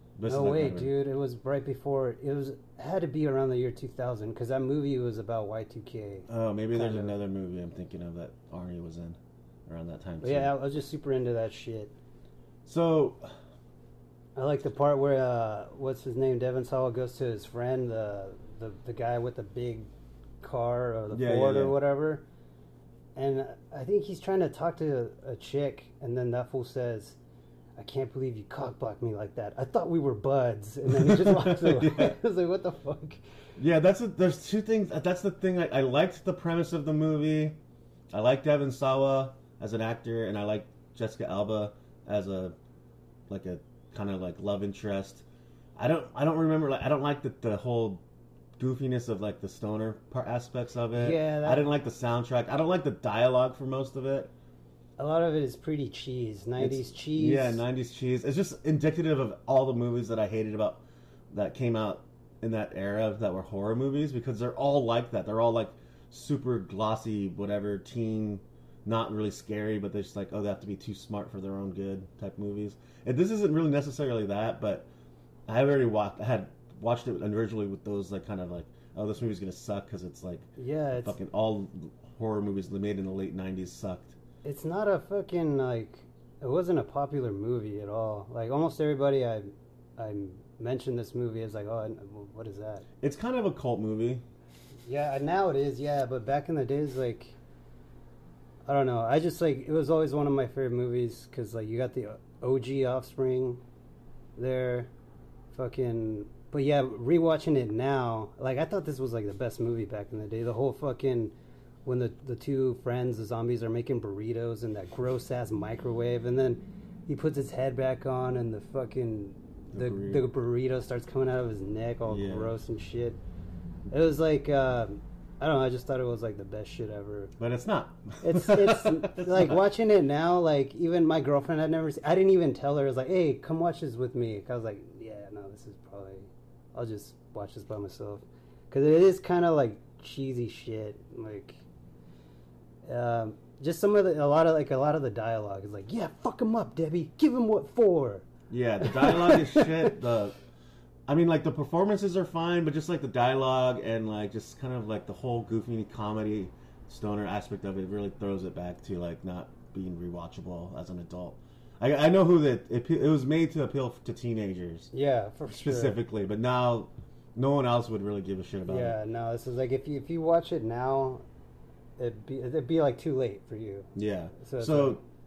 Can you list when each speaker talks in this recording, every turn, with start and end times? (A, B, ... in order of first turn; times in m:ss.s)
0:00.2-0:00.9 A
0:00.3-0:07.1 B
0:06.3-0:10.5 A
0:10.2-0:11.9 B
0:12.7-0:13.3 A
0:14.4-0:19.9 B
0:20.4-0:22.2 B
0:21.1-0:21.8 A
0:23.2-0:27.2 B
0:27.8-0:33.2 B
0:30.9-0:32.2 A
0:33.6-0:37.6 A
0:38.1-0:42.6 A
0:43.3-0:45.2 A
0:45.8-0:48.0 A
0:48.6-0:54.3 A
0:50.9-0:51.7 B
0:55.0-0:57.6 B
0:56.6-1:14.9 A
1:15.5-1:20.5 A
1:20.6-1:21.2 B
1:21.0-1:24.2 A
1:24.4-1:32.8 B
1:33.0-1:34.2 A
1:34.9-1:37.4 B
1:38.7-1:43.6 B
1:44.4-1:44.9 B
1:45.5-1:51.3 B
1:51.8-2:03.2 B
1:59.7-2:00.3 A
2:02.1-2:02.5 A
2:03.9-2:07.3 B
2:07.4-2:09.6 A
2:08.2-2:21.6 B
2:22.8-2:28.3 B
2:28.5-2:30.4 A
2:28.8-2:30.0 B
2:31.1-2:44.9 A
2:44.9-2:46.0 B
2:45.5-2:49.0 A
2:48.7-2:51.2 B
2:52.0-2:55.0 B
2:54.0-2:55.0 A